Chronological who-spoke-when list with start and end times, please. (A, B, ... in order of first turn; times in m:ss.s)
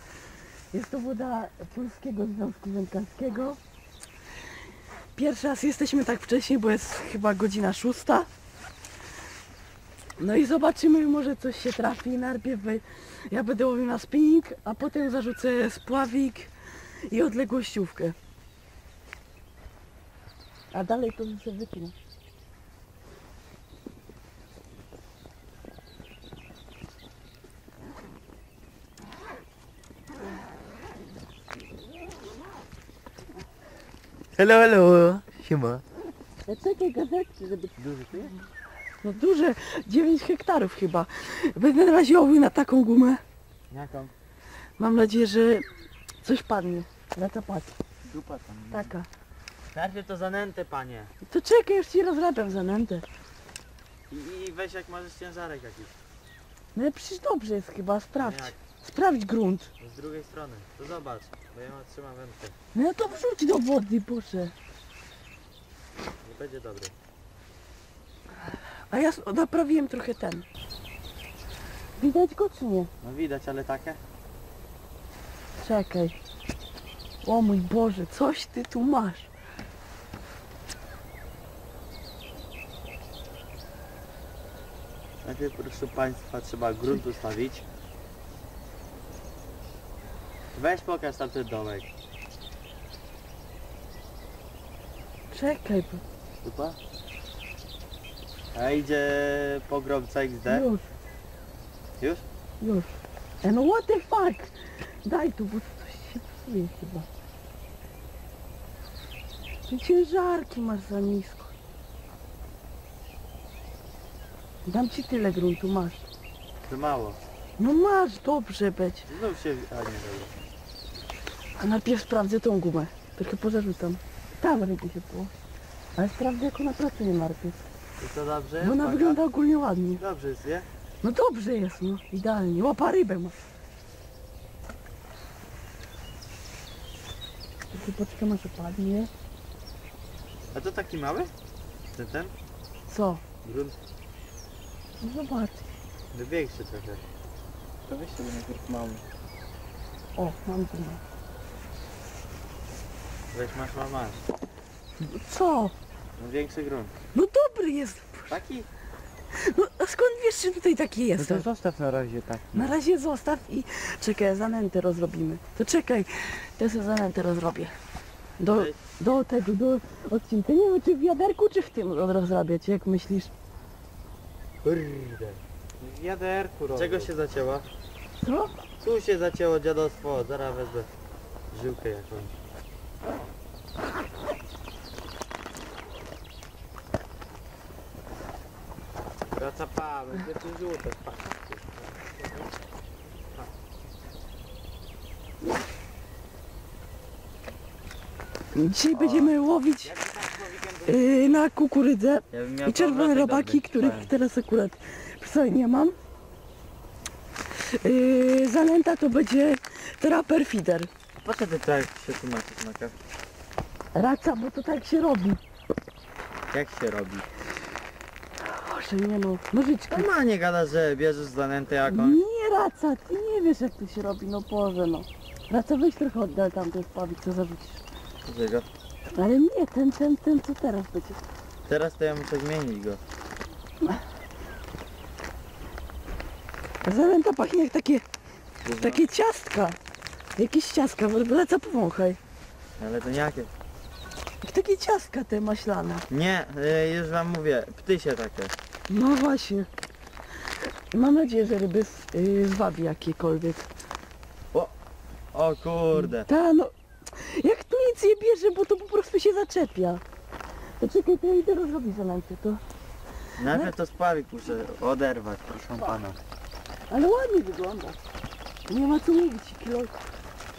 0:00.7-0:03.6 A
0:05.2-0:08.3 A
0:10.2-0:16.5 A
0:17.1-0:18.2 A
0:20.7-0:21.9 A
0:34.4-0:35.8 B
0:36.5-0:37.8 A
0:37.8-0:38.4 B
0:39.0-0:43.2 A
0:43.7-0:44.1 B
0:44.8-0:45.7 A
0:46.2-0:47.7 A
0:48.0-0:48.9 B
0:48.7-0:49.1 A
0:49.7-0:51.1 B
0:51.2-0:53.1 A
0:54.1-0:56.0 B
0:56.8-0:59.7 A
0:58.2-0:58.6 B
0:59.8-1:02.5 B
1:02.7-1:04.5 A
1:06.2-1:06.9 B
1:08.9-1:10.5 A
1:12.0-1:12.9 A
1:13.0-1:14.0 B
1:15.6-1:16.2 A
1:17.2-1:19.3 A
1:25.2-1:27.7 B
1:30.6-1:31.9 B
1:35.3-1:36.0 A
1:36.4-1:36.8 B
1:38.6-1:40.7 B
1:40.5-1:40.9 A
1:42.6-1:47.1 A
1:49.7-1:51.5 A
1:54.7-1:56.0 A
1:56.7-1:57.2 B
1:57.6-1:59.1 A
1:59.1-2:00.3 B
2:01.6-2:05.3 A
2:06.0-2:07.6 A
2:08.0-2:09.2 B
2:08.6-2:10.0 A
2:10.0-2:10.7 B
2:11.0-2:13.4 A
2:17.7-2:19.1 A
2:20.5-2:21.3 B
2:22.0-2:22.3 B
2:22.9-2:23.2 A
2:23.4-2:23.8 B
2:25.0-2:25.7 A
2:26.1-2:27.0 B
2:27.9-2:29.0 C
2:30.2-2:31.0 A
2:33.3-2:34.2 B
2:35.0-2:35.8 A
2:36.2-2:36.9 B
2:37.1-2:38.4 A
2:38.3-2:38.7 B
2:39.3-2:41.5 A
2:41.2-2:42.8 B
2:42.5-2:47.7 A
2:48.4-2:53.3 A
2:48.5-2:48.8 B
2:54.6-2:55.4 B
2:55.8-2:57.1 C
2:56.7-2:57.7 B
2:58.2-2:58.6 A
2:58.8-3:00.9 B
3:01.5-3:02.3 B
3:09.4-3:11.7 B
3:18.5-3:20.0 A
3:18.9-3:19.3 B
3:20.0-3:20.9 C
3:20.8-3:26.0 A
3:22.3-3:24.1 B
3:27.5-3:30.9 A
3:31.2-3:32.9 B
3:33.9-3:35.4 A
3:36.5-3:37.2 B
3:38.4-3:40.1 A
3:39.9-3:42.2 B
3:41.9-3:47.8 A
3:48.3-3:48.7 B
3:49.1-3:51.2 A
3:51.7-3:53.0 B
3:56.8-3:58.0 A
3:58.6-3:59.0 B
3:58.8-3:59.8 A
4:00.4-4:02.2 A
4:02.8-4:03.5 B
4:04.4-4:06.0 A
4:06.1-4:08.5 B
4:08.9-4:09.7 A
4:10.9-4:13.7 A
4:15.3-4:16.3 B
4:16.0-4:20.0 A
4:20.8-4:22.6 A
4:23.4-4:26.2 B
4:26.9-4:28.0 A
4:28.7-4:30.0 A